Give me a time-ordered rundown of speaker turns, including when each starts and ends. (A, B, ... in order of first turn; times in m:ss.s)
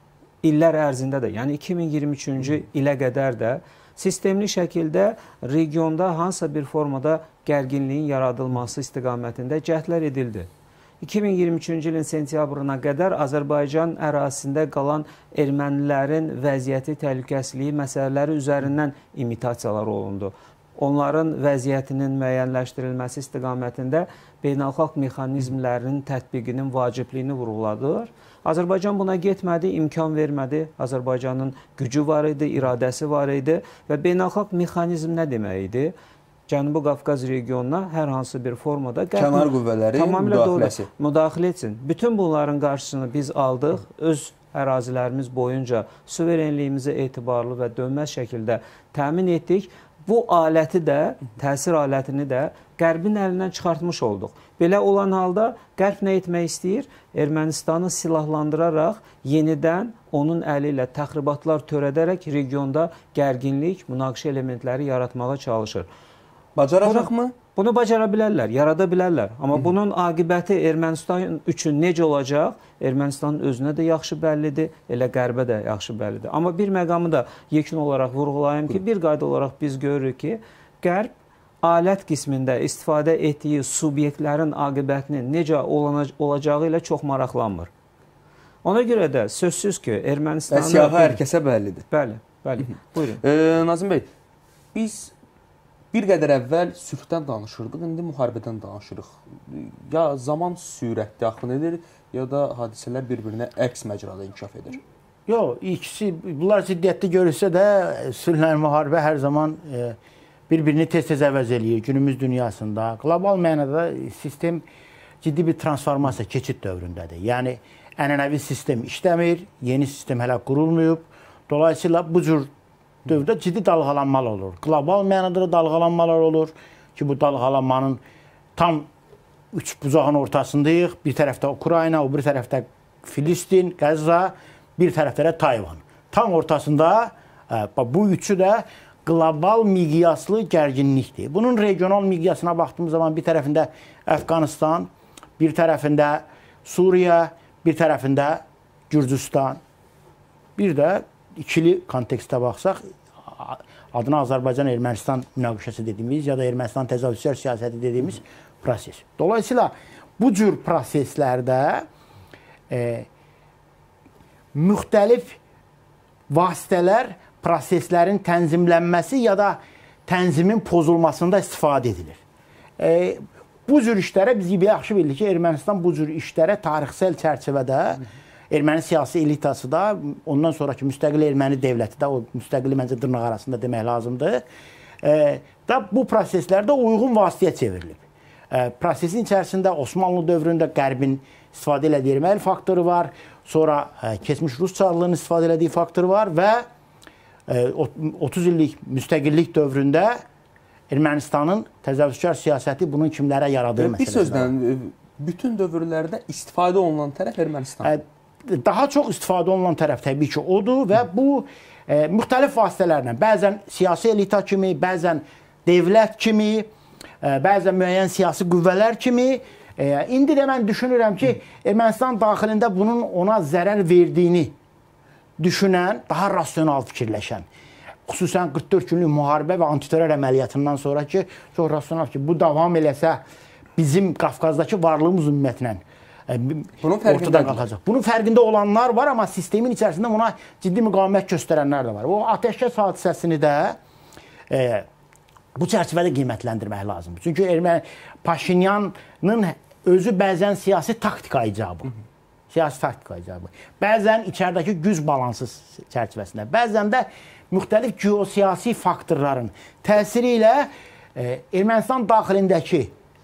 0:00.4-0:10.5 A
0:11.0-0:35.9 A
0:36.5-1:05.9 A
0:39.2-0:40.9 B
1:06.6-1:07.3 B
1:06.8-1:21.1 A
1:21.6-1:27.7 A
1:28.6-1:31.2 A
1:30.5-1:31.8 B
1:31.9-1:33.2 A
1:33.2-1:34.1 B
1:34.7-1:35.1 B
1:35.9-1:44.8 B
1:45.3-1:50.0 C
1:50.5-1:54.6 C
1:55.2-2:02.5 C
2:03.0-2:08.0 C
2:08.6-2:08.9 C
2:09.5-2:29.6 C
2:30.6-2:41.8 C
2:42.7-2:43.1 C
2:44.5-2:45.4 C
2:46.3-2:52.2 C
2:52.8-3:04.4 C
3:05.0-3:16.6 C
3:17.5-3:20.2 C
3:20.9-3:24.5 C
3:23.8-3:27.9 B
3:27.8-3:36.7 C
3:37.2-3:44.5 C
3:45.4-3:47.4 C
3:48.1-3:53.2 C
3:53.8-4:03.8 C
3:56.8-3:57.6 B
4:04.5-4:04.8 C
4:05.5-4:11.9 C
4:12.5-4:22.9 C